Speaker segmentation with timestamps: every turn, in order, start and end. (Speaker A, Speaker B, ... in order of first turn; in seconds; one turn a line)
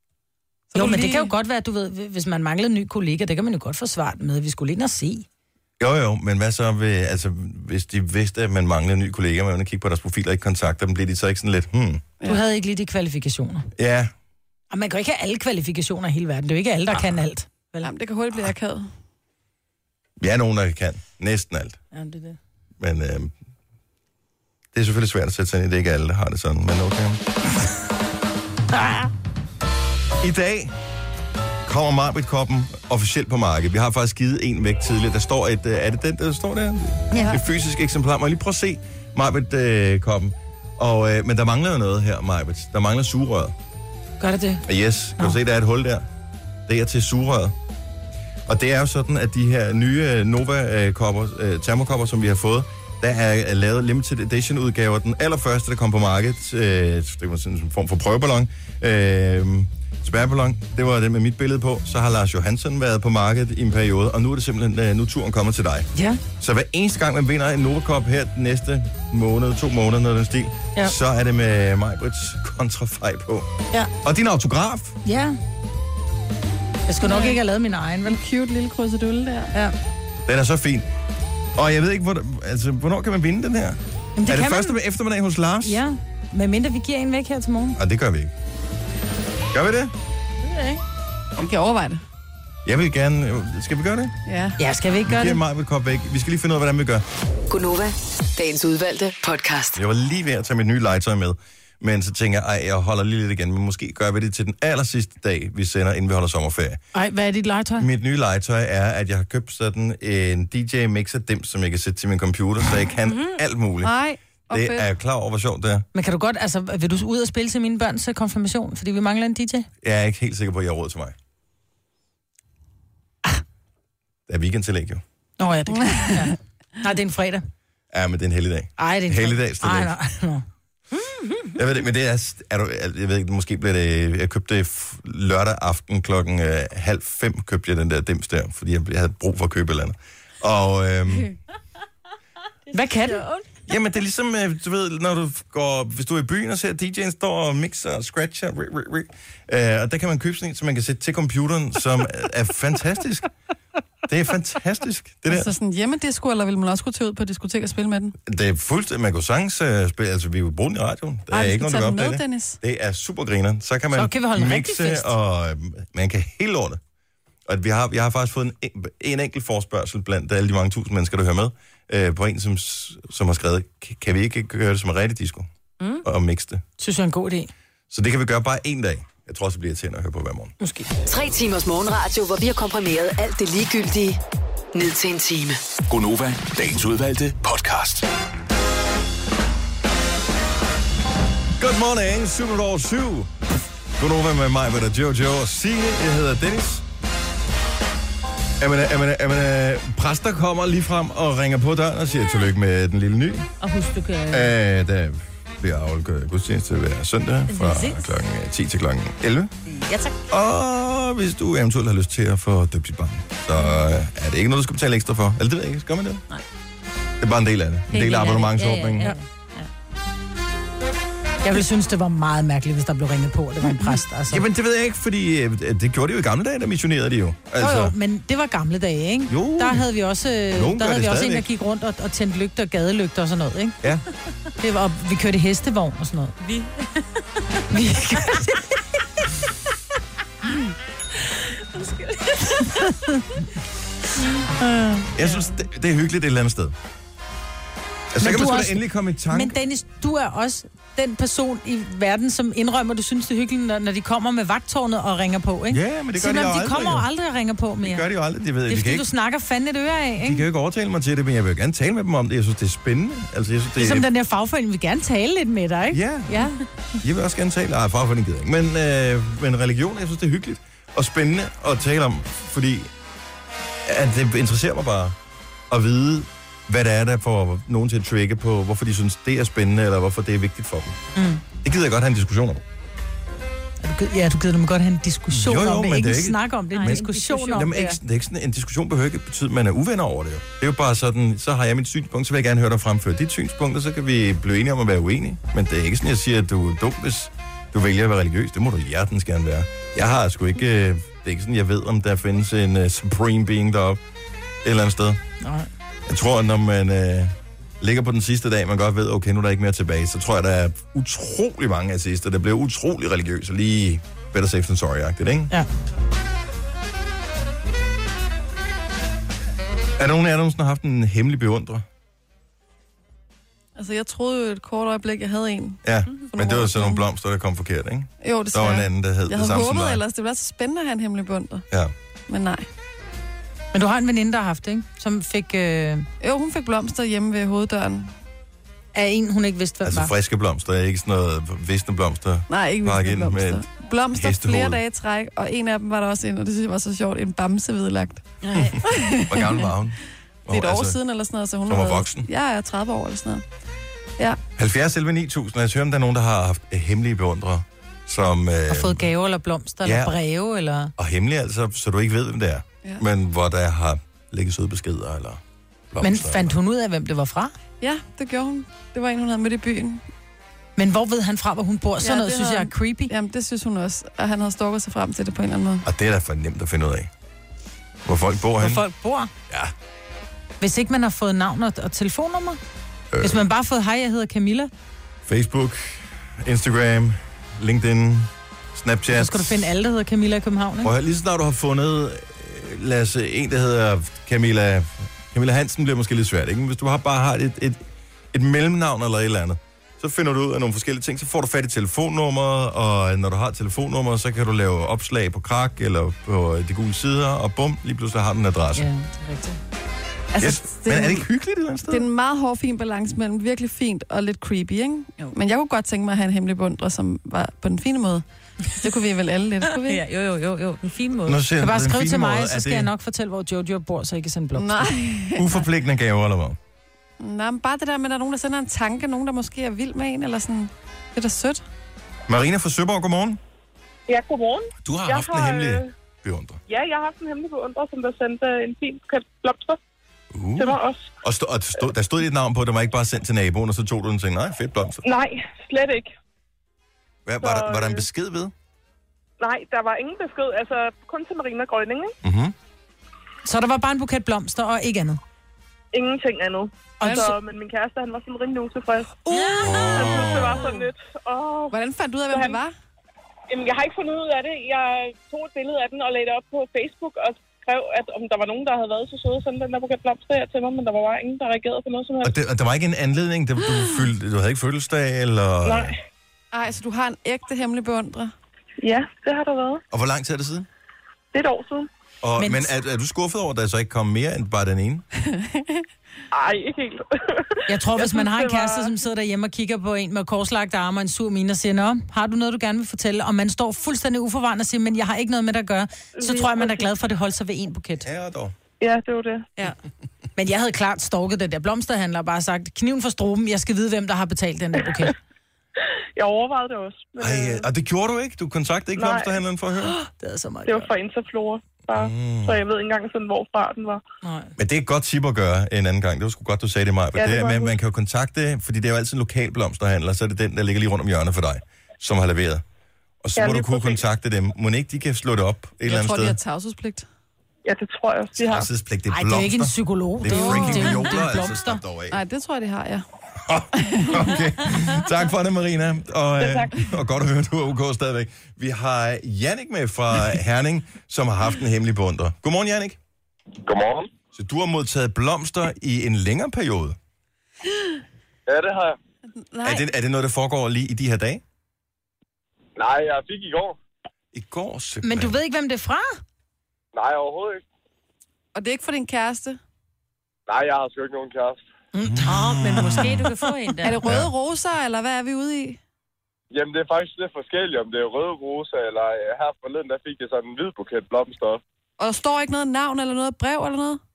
Speaker A: 0.7-1.3
Speaker B: 0.8-5.3
Speaker C: 5.8-12.0
Speaker B: 12.2-13.7
Speaker C: 13.8-14.1
Speaker B: 14.7-17.9
Speaker C: 16.9-17.2
Speaker A: 17.8-18.9
Speaker C: 20.2-21.8
Speaker B: 21.9-22.4
Speaker C: 22.8-23.3
Speaker C: 24.7-27.2
Speaker B: 28.8-29.1
Speaker C: 30.2-30.8
Speaker C: 31.6-43.5
Speaker B: 44.2-44.6
Speaker C: 44.6-46.0
Speaker C: 46.7-47.5
Speaker C: 48.5-75.0
Speaker B: 65.9-66.2
Speaker B: 75.0-75.4
Speaker B: 76.9-78.2
Speaker A: 77.0-77.4
Speaker A: 78.0-79.5
Speaker C: 80.3-80.9
Speaker C: 81.6-85.8
Speaker B: 84.2-84.8
Speaker B: 85.6-87.8
Speaker C: 87.8-88.3
Speaker C: 89.5-89.9
Speaker B: 90.4-90.8
Speaker A: 91.4-92.0
Speaker C: 92.7-94.1
Speaker A: 94.3-94.6
Speaker B: 94.6-95.4
Speaker C: 95.1-97.0
Speaker D: 97.5-99.8
Speaker C: 99.8-106.8
Speaker B: 106.9-107.9
Speaker C: 107.8-114.0
Speaker E: 113.1-113.3
Speaker A: 113.8-114.9
Speaker C: 114.5-115.9
Speaker B: 115.9-119.7
Speaker C: 119.8-121.2
Speaker C: 124.3-125.0
Speaker B: 125.4-127.5
Speaker A: 125.8-126.3
Speaker C: 127.9-130.0
Speaker B: 128.8-130.4
Speaker E: 131.0-131.5
Speaker C: 131.6-141.3
Speaker E: 142.7-143.4
Speaker B: 142.7-143.2
Speaker C: 143.7-153.3
Speaker C: 154.1-155.5
Speaker A: 155.3-158.2
Speaker C: 158.3-166.8
Speaker A: 161.3-162.6
Speaker B: 163.9-165.1
Speaker C: 167.5-175.5
Speaker C: 176.0-176.6
Speaker B: 176.8-177.5
Speaker C: 177.9-180.5
Speaker B: 180.6-180.9
Speaker D: 181.1-184.2
Speaker D: 184.7-185.6
Speaker F: 185.9-188.1
Speaker C: 191.6-193.3
Speaker C: 194.0-196.8
Speaker C: 198.6-203.5
Speaker E: 203.6-204.6
Speaker C: 204.3-209.5
Speaker E: 207.5-208.1
Speaker E: 209.7-210.2
Speaker C: 210.3-216.2
Speaker E: 213.6-213.8
Speaker C: 217.2-219.1
Speaker E: 217.9-219.7
Speaker B: 221.4-224.4
Speaker C: 224.3-228.0
Speaker B: 227.6-233.8
Speaker C: 229.3-229.9
Speaker C: 230.5-231.5
Speaker B: 234.6-236.4
Speaker E: 236.4-237.1
Speaker B: 237.7-238.7
Speaker E: 241.7-242.9
Speaker B: 242.7-243.2
Speaker B: 244.6-245.1
Speaker C: 245.1-246.8
Speaker E: 245.2-245.5
Speaker C: 248.1-249.6
Speaker B: 248.2-258.1
Speaker C: 255.7-257.1
Speaker C: 257.8-259.1
Speaker B: 258.7-260.5
Speaker C: 260.2-264.1
Speaker B: 263.8-266.6
Speaker C: 265.9-266.5
Speaker C: 267.0-272.9
Speaker C: 273.9-275.2
Speaker C: 275.7-281.0
Speaker B: 281.2-281.4
Speaker C: 281.6-282.6
Speaker B: 283.8-288.0
Speaker C: 285.3-304.0
Speaker E: 286.7-287.9
Speaker C: 304.6-305.2
Speaker B: 305.4-305.7
Speaker C: 306.1-315.5
Speaker C: 320.0-321.9
Speaker A: 323.8-325.8
Speaker C: 325.8-330.0
Speaker A: 326.3-327.0
Speaker A: 328.2-331.6
Speaker A: 332.3-332.7
Speaker B: 333.7-336.1
Speaker A: 336.2-338.1
Speaker B: 338.9-340.1
Speaker C: 339.8-344.8
Speaker A: 342.5-348.2
Speaker E: 348.4-348.8
Speaker C: 348.5-351.0
Speaker A: 348.8-349.6
Speaker A: 350.5-353.4
Speaker C: 351.7-352.3
Speaker C: 354.6-359.1
Speaker B: 358.7-360.9
Speaker C: 359.8-360.2
Speaker C: 361.0-366.6
Speaker B: 366.0-367.5
Speaker A: 367.8-370.0
Speaker B: 370.8-373.1
Speaker A: 372.0-375.8
Speaker C: 375.8-377.1
Speaker C: 378.1-378.8
Speaker B: 378.6-379.3
Speaker B: 380.6-382.6
Speaker C: 383.1-383.4
Speaker B: 383.2-384.7
Speaker C: 385.3-389.7
Speaker B: 389.1-390.9
Speaker C: 390.8-408.9
Speaker B: 408.8-409.6
Speaker A: 410.3-411.3
Speaker C: 410.4-412.1
Speaker A: 411.9-420.0
Speaker E: 419.7-421.4
Speaker C: 421.2-422.9
Speaker B: 421.6-424.9
Speaker A: 424.6-425.5
Speaker C: 425.4-426.6
Speaker A: 427.2-431.6
Speaker C: 432.3-433.4
Speaker G: 434.1-435.9
Speaker C: 434.8-436.6
Speaker G: 436.7-439.8
Speaker C: 440.3-445.0
Speaker G: 440.6-441.1
Speaker G: 445.0-446.1
Speaker C: 447.3-448.5
Speaker G: 447.4-448.1
Speaker G: 449.4-452.1
Speaker C: 452.2-452.6
Speaker B: 453.4-455.2
Speaker G: 455.9-459.2
Speaker B: 457.0-457.3
Speaker A: 457.0-457.4
Speaker A: 459.3-460.2
Speaker B: 459.3-460.1
Speaker C: 459.6-460.7
Speaker G: 459.9-461.8
Speaker A: 461.7-462.7
Speaker G: 462.3-462.6
Speaker G: 463.5-472.4
Speaker C: 472.2-476.0
Speaker G: 475.6-476.0
Speaker A: 476.5-478.3
Speaker G: 478.8-479.8
Speaker C: 479.9-480.7
Speaker G: 481.3-481.9
Speaker C: 482.2-485.1
Speaker B: 482.4-482.7
Speaker A: 485.3-485.8
Speaker G: 486.3-488.9
Speaker B: 487.7-498.1
Speaker G: 496.2-496.9
Speaker C: 498.0-498.5
Speaker G: 498.8-499.5
Speaker B: 500.4-505.1
Speaker G: 506.2-507.7
Speaker C: 507.2-509.9
Speaker G: 509.0-509.4
Speaker B: 509.9-510.9
Speaker G: 510.7-514.0
Speaker C: 511.9-512.6
Speaker B: 514.2-514.5
Speaker C: 514.6-522.6
Speaker G: 517.1-517.7
Speaker C: 523.2-526.4
Speaker G: 523.4-524.0
Speaker A: 525.9-527.1
Speaker G: 527.6-528.7
Speaker C: 528.4-532.2
Speaker B: 529.1-531.8
Speaker A: 530.3-531.0
Speaker A: 532.1-533.1
Speaker C: 533.4-543.0
Speaker A: 533.8-534.3
Speaker H: 543.6-544.1
Speaker C: 544.3-547.0
Speaker H: 548.5-549.0
Speaker A: 549.4-549.9
Speaker C: 549.6-551.4
Speaker H: 552.8-553.8
Speaker C: 554.3-555.4
Speaker B: 555.0-556.2
Speaker H: 556.9-557.6
Speaker A: 558.5-559.6
Speaker H: 560.5-561.6
Speaker B: 561.9-563.3
Speaker C: 562.1-563.2
Speaker E: 562.2-564.0
Speaker A: 563.8-565.8
Speaker C: 564.0-564.3
Speaker H: 566.5-571.6
Speaker A: 572.0-574.0